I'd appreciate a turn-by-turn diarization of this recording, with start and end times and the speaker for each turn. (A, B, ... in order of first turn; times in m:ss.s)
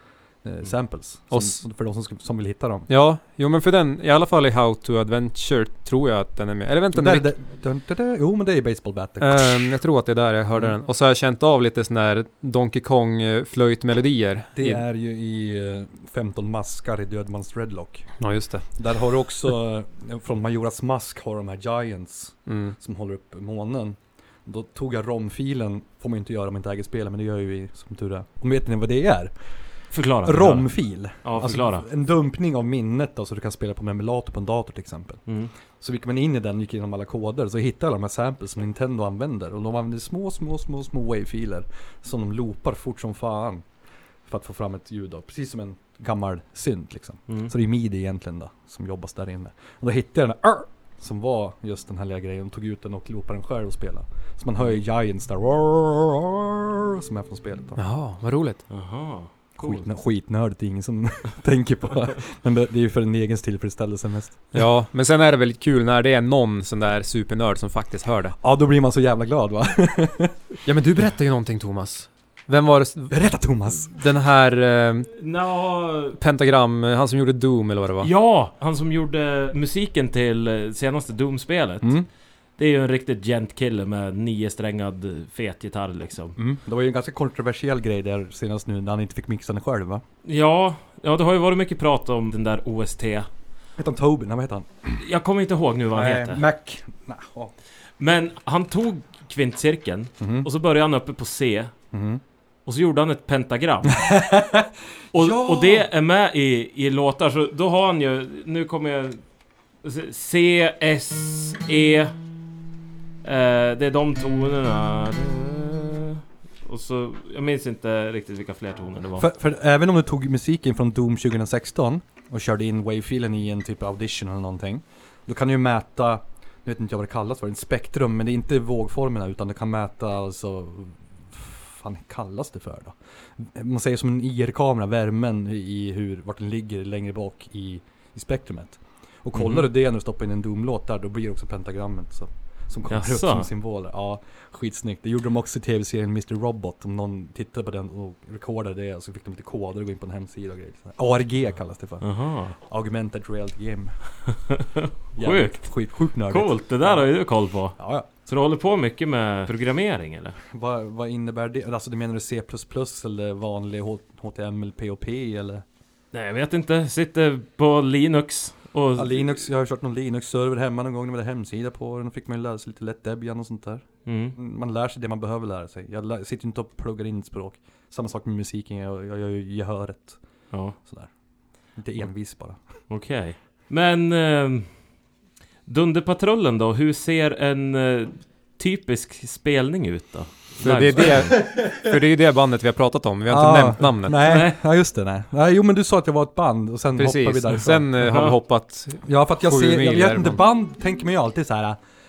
0:00.4-0:02.9 A
0:01.3-0:01.6 B
0:02.9-0:07.3 B
0:06.9-0:09.6 A
0:09.2-0:14.8 B
0:14.6-0:18.1 A
0:18.2-0:18.6 B
0:18.8-0:29.3 A
0:22.4-0:22.7 B
0:29.9-0:30.7 C
0:30.2-0:35.2 A
0:31.2-0:31.9 C
0:35.8-0:43.6 A
0:44.2-0:57.8 A
0:57.8-0:58.6 B
0:58.7-0:59.8 C
0:59.6-1:04.4 A
1:04.5-1:08.4 B
1:08.4-1:10.4 A
1:10.6-1:13.2 B
1:13.1-1:13.9 A
1:13.9-1:15.1 B
1:15.2-1:16.2 C
1:16.2-1:18.1 B
1:18.0-1:22.0 C
1:21.8-1:22.1 A
1:22.6-1:26.4 C
1:26.4-1:30.0 A
1:30.2-1:33.3 C
1:33.8-1:35.0 A
1:35.0-1:36.4 C
1:35.9-1:37.5 A
1:38.0-1:41.7 C
1:40.2-1:40.5 A
1:41.9-1:42.2 A
1:42.6-1:44.1 C
1:44.0-1:45.8 A
1:45.1-1:49.2 C
1:49.8-1:52.1 C
1:53.2-1:59.3 C
1:59.2-2:32.0 A
2:19.3-2:19.6 C
2:22.9-2:23.5 C
2:32.0-2:32.5 C
2:32.6-2:34.0 A
2:34.5-2:40.4 C
2:35.2-2:37.0 A
2:37.8-2:38.1 A
2:40.5-2:45.6 A
2:46.1-2:49.3 C
2:49.0-3:00.2 A
2:54.0-2:54.4 C
3:00.5-3:00.8 C
3:00.7-3:01.1 A
3:01.7-3:02.6 A
3:02.9-3:04.9 C
3:05.6-3:11.4 C
3:10.6-3:14.2 B
3:13.3-3:17.9 A
3:14.2-3:14.6 C
3:17.0-3:20.4 B
3:18.0-3:18.3 C
3:19.0-3:21.8 A